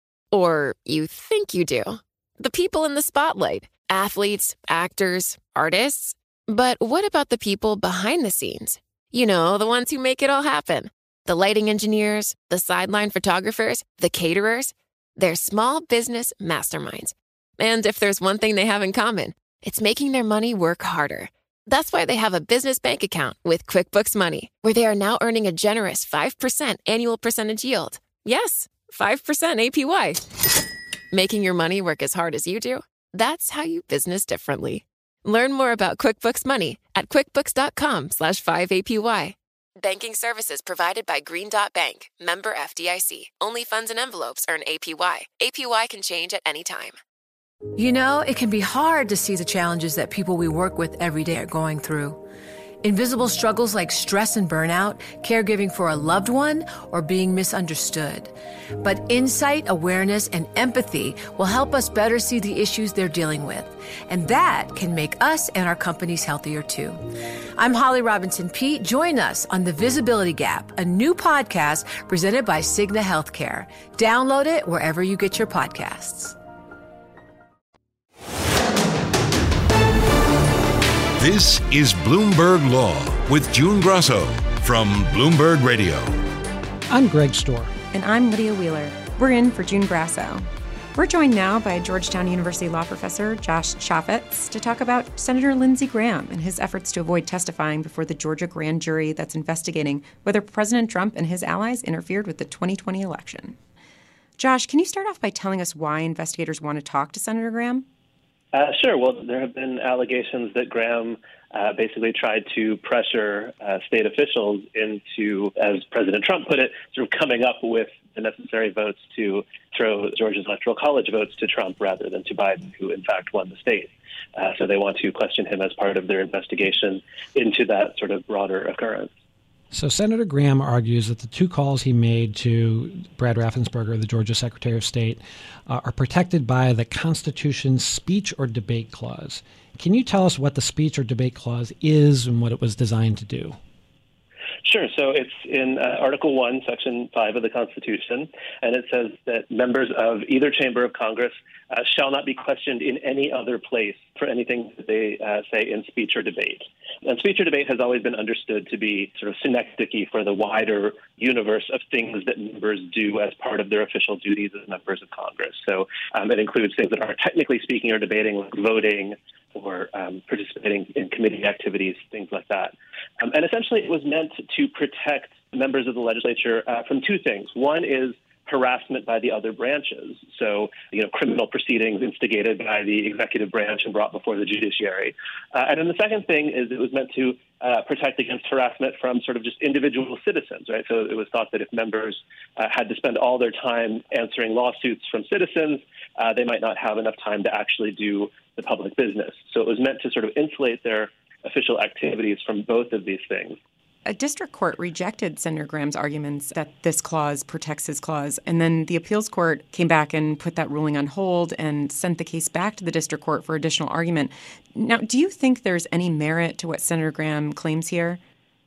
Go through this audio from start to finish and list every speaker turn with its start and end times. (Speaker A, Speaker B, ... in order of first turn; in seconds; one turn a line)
Speaker A: 0.3-30.2
Speaker A: 31.1-47.0
Speaker B: 47.8-52.2
Speaker B: 52.8-67.0
Speaker B: 67.6-76.4
Speaker C: 81.2-86.2
Speaker D: 86.9-87.7
Speaker E: 87.9-103.6
Speaker E: 104.4-107.9
Speaker F: 108.5-129.1
Speaker D: 129.7-143.6
Speaker F: 144.7-203.6
Speaker E: 204.1-218.2